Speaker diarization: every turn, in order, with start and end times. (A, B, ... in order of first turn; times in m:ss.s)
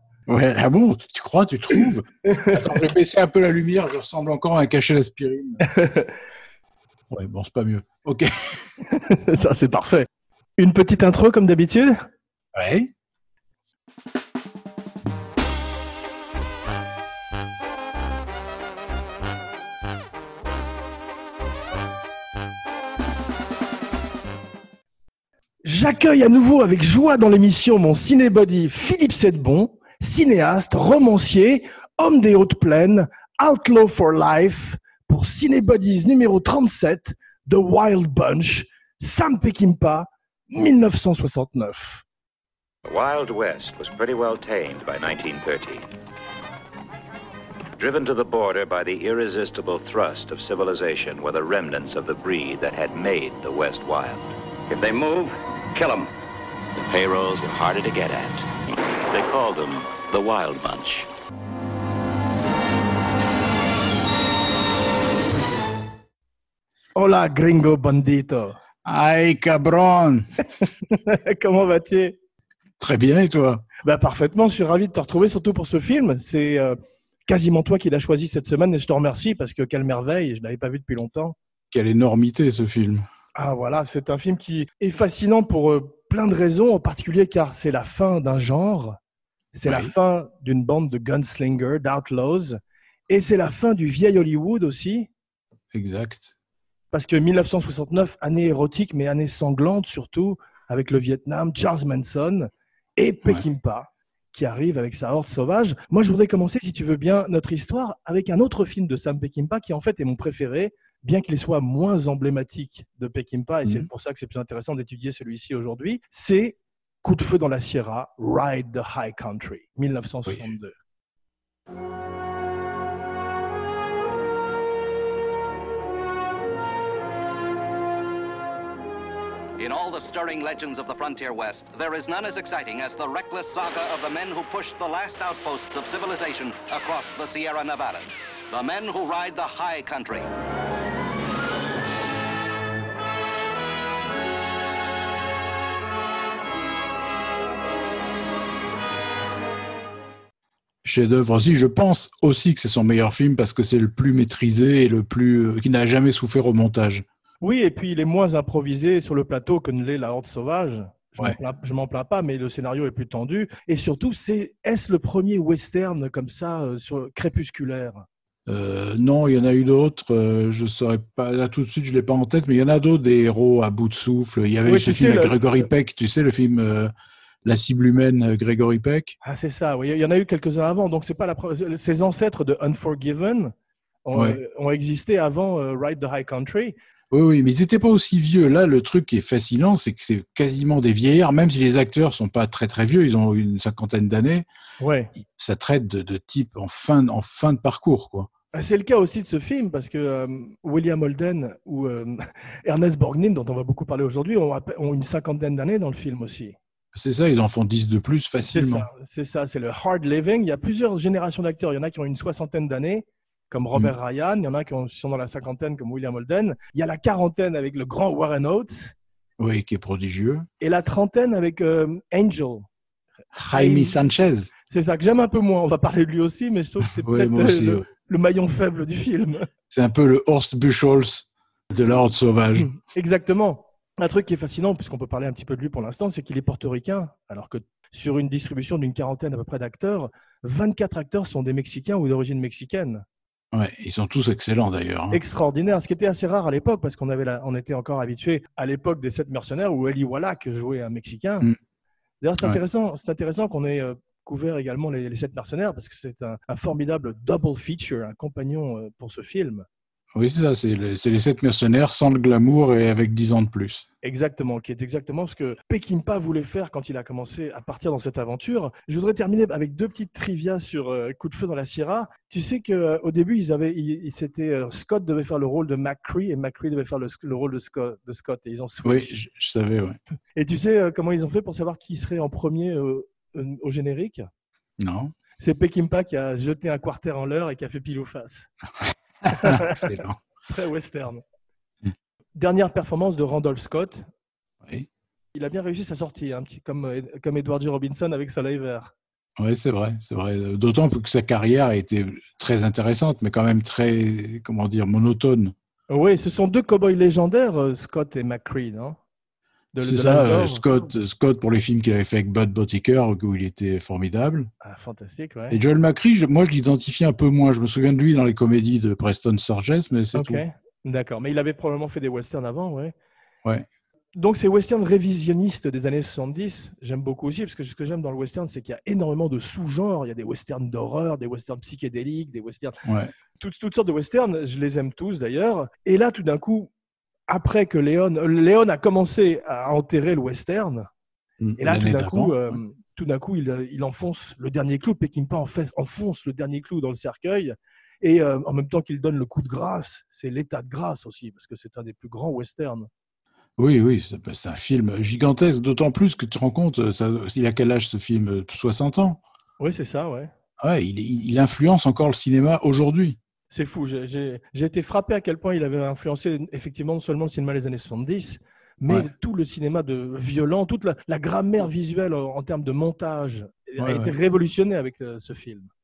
0:00.3-0:05.6 A
0:02.2-0:02.9 B
0:05.6-0:06.1 B
0:07.1-0:08.6 A
0:08.9-0:10.1 B
0:10.6-0:12.0 B
0:12.5-0:12.9 A
0:25.6-0:42.0 B
0:42.8-0:45.9 C
0:47.8-0:54.3 C
0:56.7-0:58.5 C
0:59.1-1:01.1 C
1:07.0-1:08.6 B
1:08.8-1:10.2 A
1:10.6-1:12.2 B
1:12.8-1:13.6 A
1:13.8-1:21.3 B
1:21.7-1:23.1 A
1:23.3-1:29.0 B
1:29.5-1:32.6 B
1:29.6-1:29.9 A
1:33.1-1:35.1 B
1:35.7-1:36.3 A
1:36.9-2:00.7 B
2:09.6-2:20.3 D
2:30.8-2:37.0 A
2:37.4-2:48.0 B
2:48.4-2:56.9 A
2:54.7-2:55.6 B
2:57.4-2:59.1 A
2:59.2-3:03.5 B
3:04.0-3:06.7 B
3:04.1-3:04.4 A
3:07.1-3:14.4 A
3:14.8-3:15.1 B
3:15.2-3:18.3 A
3:18.5-3:26.6 B
3:26.9-3:28.9 A
3:28.5-3:39.0 B
3:39.4-3:40.5 A
3:40.6-3:42.7 B
3:43.3-3:44.5 A
3:43.5-3:44.0 B
3:44.7-3:49.5 B
3:46.8-3:47.8 A
3:49.7-3:52.7 A
3:52.7-4:03.0 B
4:03.5-4:05.2 A
4:05.1-4:11.5 B
4:12.2-4:19.6 B
4:20.1-4:23.8 A
4:24.0-4:39.2 B
4:38.8-4:40.0 A
4:40.4-4:44.3 B
4:44.8-4:45.1 A
4:45.4-4:48.5 B
4:49.2-4:50.2 A
4:49.3-4:51.2 B
4:52.4-4:54.1 B
4:54.6-4:54.9 A
4:55.3-4:58.9 B
4:59.4-5:05.5 A
5:05.9-5:09.0 B
5:09.7-5:10.6 B
5:09.8-5:14.5 A
5:14.6-5:15.6 B
5:15.5-5:20.4 A
5:20.1-5:22.9 B
5:24.2-5:32.8 B
5:32.8-5:33.1 A
5:33.4-5:36.7 B
5:37.3-5:40.9 B
5:41.4-5:42.6 A
5:41.6-5:52.9 B
5:53.6-5:59.2 A
5:59.6-6:00.3 B
6:00.6-6:03.2 A
6:03.5-6:15.7 B
6:13.8-6:14.1 A